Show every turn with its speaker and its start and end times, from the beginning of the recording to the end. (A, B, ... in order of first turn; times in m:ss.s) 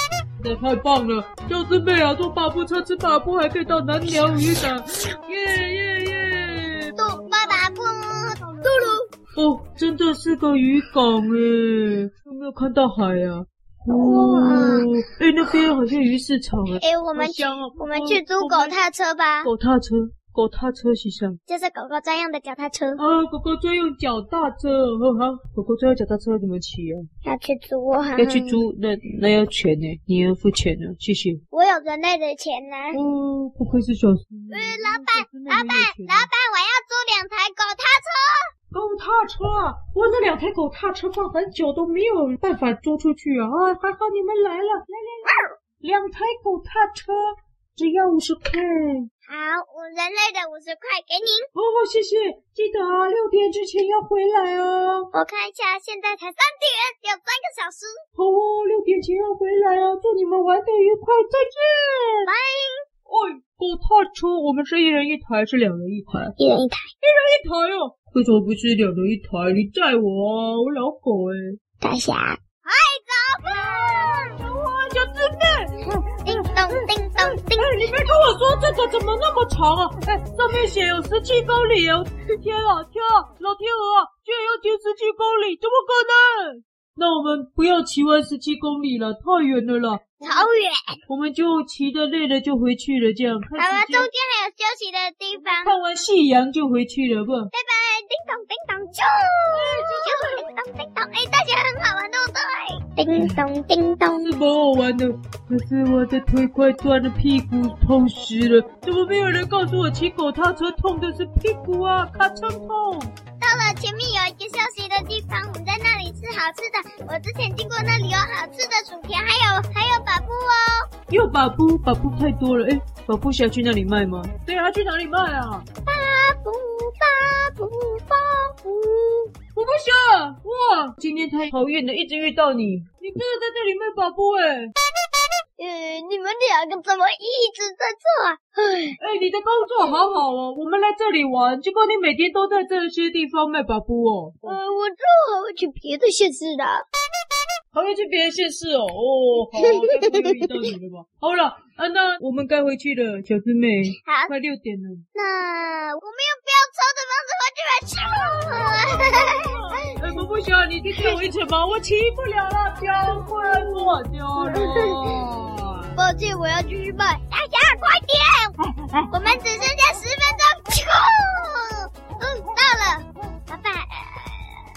0:00.4-0:07.6 A
0:07.0-0:09.0 B
0:08.9-0:18.8 A
0:13.9-0:14.9 B
0:16.8-0:19.5 B
0:19.4-0:21.4 A
0:21.5-0:23.0 B
0:23.0-0:27.0 A
0:27.2-0:28.6 B
0:28.2-0:31.4 A
0:31.5-0:33.0 B
0:32.9-0:36.3 A
0:34.5-0:38.5 B
0:38.7-0:45.3 A
0:45.2-0:45.5 B
0:45.8-0:49.1 A
0:49.3-0:51.5 B
0:51.5-0:55.1 A
0:55.1-0:58.0 B
0:58.1-1:02.3 A
1:02.3-1:02.8 B
1:03.0-1:06.3 A
1:06.4-1:06.9 B
1:07.0-1:11.6 A
1:11.8-1:14.4 B
1:13.4-1:30.5 A
1:16.1-1:17.9 B
1:30.2-1:31.0 B
1:31.1-1:34.1 A
1:33.6-1:35.8 B
1:35.3-1:37.5 A
1:37.5-1:44.3 B
1:39.5-1:40.4 A
1:43.1-1:43.4 A
1:44.2-1:53.1 A
1:53.4-2:00.9 B
2:01.1-2:05.7 A
2:05.8-2:08.6 B
2:08.6-2:14.7 A
2:15.6-2:19.0 B
2:19.0-2:24.6 A
2:19.8-2:20.0 B
2:24.4-2:26.8 B
2:27.7-2:35.0 A
2:29.6-2:30.1 B
2:34.0-2:34.3 B
2:35.1-2:39.9 B
2:38.4-2:46.0 A
2:44.4-2:45.0 B
2:45.9-2:48.6 B
2:48.6-2:49.4 A
2:49.1-2:54.7 B